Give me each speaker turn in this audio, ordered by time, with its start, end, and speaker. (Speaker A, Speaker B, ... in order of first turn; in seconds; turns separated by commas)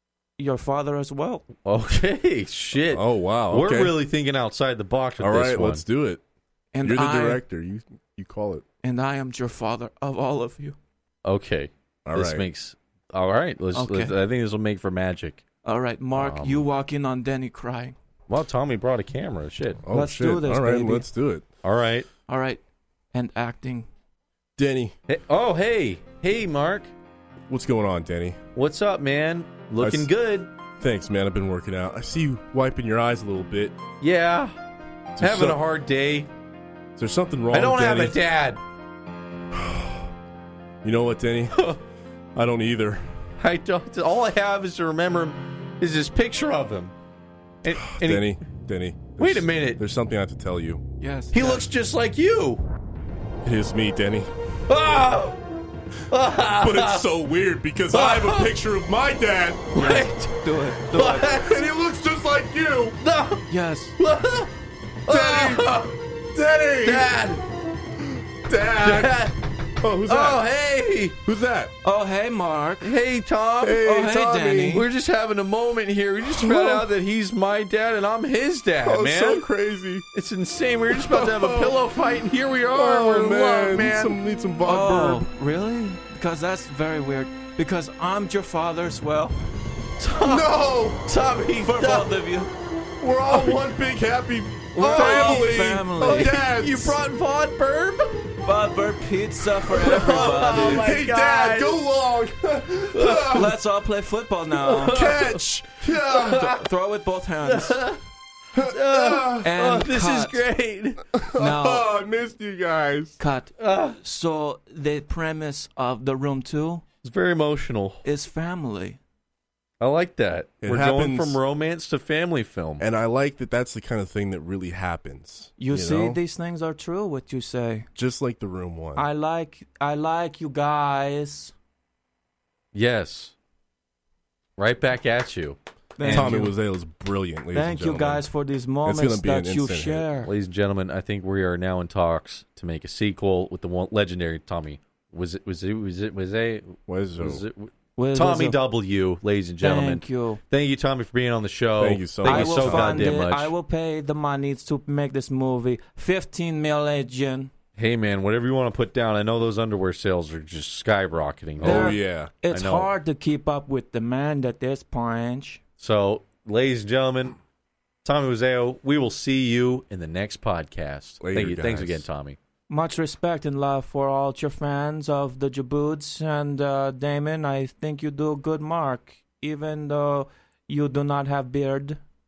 Speaker A: 0.4-1.5, Speaker B: 1.6-5.8, Speaker C: 2.9-4.0, Speaker C: 5.2-6.2, Speaker A: 6.7-7.4, Speaker C: 6.8-8.6, Speaker A: 8.8-10.8, Speaker B: 11.2-15.4, Speaker C: 12.1-12.5, Speaker A: 13.7-14.2, Speaker A: 15.6-17.9, Speaker B: 16.2-16.7, Speaker B: 18.3-19.8, Speaker C: 19.8-21.4, Speaker A: 19.9-21.1, Speaker B: 21.6-22.1, Speaker A: 22.3-22.6, Speaker A: 23.1-23.9, Speaker C: 24.6-24.9, Speaker B: 25.1-26.9, Speaker C: 27.5-28.4, Speaker B: 28.6-30.5, Speaker C: 29.8-30.1, Speaker C: 30.8-33.8, Speaker B: 34.0-34.5, Speaker C: 35.2-35.6, Speaker B: 35.2-36.3, Speaker C: 37.0-38.2, Speaker B: 37.5-38.6, Speaker C: 39.5-40.1, Speaker C: 40.8-41.6, Speaker B: 41.5-41.8, Speaker C: 42.4-43.1, Speaker B: 43.4-46.9, Speaker B: 47.6-48.4, Speaker C: 47.9-50.8, Speaker B: 49.2-49.8, Speaker A: 51.0-51.7, Speaker B: 51.3-52.7, Speaker C: 53.4-54.3, Speaker B: 54.7-55.4, Speaker B: 56.1-57.1, Speaker C: 56.5-59.7, Speaker B: 57.9-58.6, Speaker B: 59.7-61.6, Speaker A: 59.8-61.4, Speaker C: 61.3-63.0, Speaker B: 63.0-64.5, Speaker A: 63.5-64.0, Speaker B: 65.1-66.0, Speaker C: 65.1-67.2, Speaker B: 66.8-67.4, Speaker C: 68.0-69.2, Speaker B: 68.8-69.4, Speaker C: 69.8-70.5, Speaker B: 70.1-71.2, Speaker C: 71.2-71.7, Speaker A: 71.8-73.0, Speaker B: 72.8-74.0, Speaker C: 73.6-74.8, Speaker A: 73.8-74.9, Speaker B: 74.5-79.5, Speaker C: 76.3-76.8, Speaker C: 78.8-80.1, Speaker B: 80.1-84.2, Speaker C: 80.9-81.8, Speaker C: 82.7-85.3, Speaker A: 84.6-89.4, Speaker B: 90.0-92.2, Speaker C: 90.2-91.1, Speaker A: 91.6-92.5, Speaker C: 93.0-97.0, Speaker B: 93.3-93.7, Speaker A: 94.8-96.3, Speaker B: 94.8-98.4, Speaker A: 98.4-100.9, Speaker B: 99.8-101.8, Speaker C: 99.8-103.6, Speaker B: 102.9-103.5, Speaker A: 103.3-105.1, Speaker B: 104.5-105.4, Speaker C: 104.9-106.5, Speaker B: 106.0-106.7, Speaker A: 106.1-107.9, Speaker B: 107.4-108.0, Speaker B: 108.5-111.1, Speaker C: 108.5-109.5, Speaker A: 109.4-110.5, Speaker C: 111.1-113.2, Speaker A: 111.3-111.9, Speaker A: 113.2-116.8, Speaker B: 113.6-114.0, Speaker B: 117.0-118.0, Speaker A: 118.0-119.0, Speaker B: 119.8-122.8, Speaker C: 120.6-121.4, Speaker C: 122.8-126.2, Speaker A: 125.6-127.9, Speaker C: 128.0-129.1, Speaker A: 129.0-131.5, Speaker B: 132.7-133.3, Speaker B: 134.6-136.4, Speaker A: 136.0-136.6, Speaker C: 136.1-138.3, Speaker A: 137.5-140.3, Speaker C: 138.8-140.1, Speaker B: 140.2-153.5, Speaker C: 146.9-147.4, Speaker A: 148.0-148.6, Speaker A: 149.6-150.4, Speaker C: 151.8-153.2, Speaker A: 152.2-157.5, Speaker B: 157.8-162.0, Speaker C: 161.6-162.3, Speaker A: 161.6-165.6, Speaker B: 162.5-162.9, Speaker B: 165.8-167.4, Speaker B: 168.1-172.4, Speaker C: 171.2-172.1, Speaker A: 172.7-182.0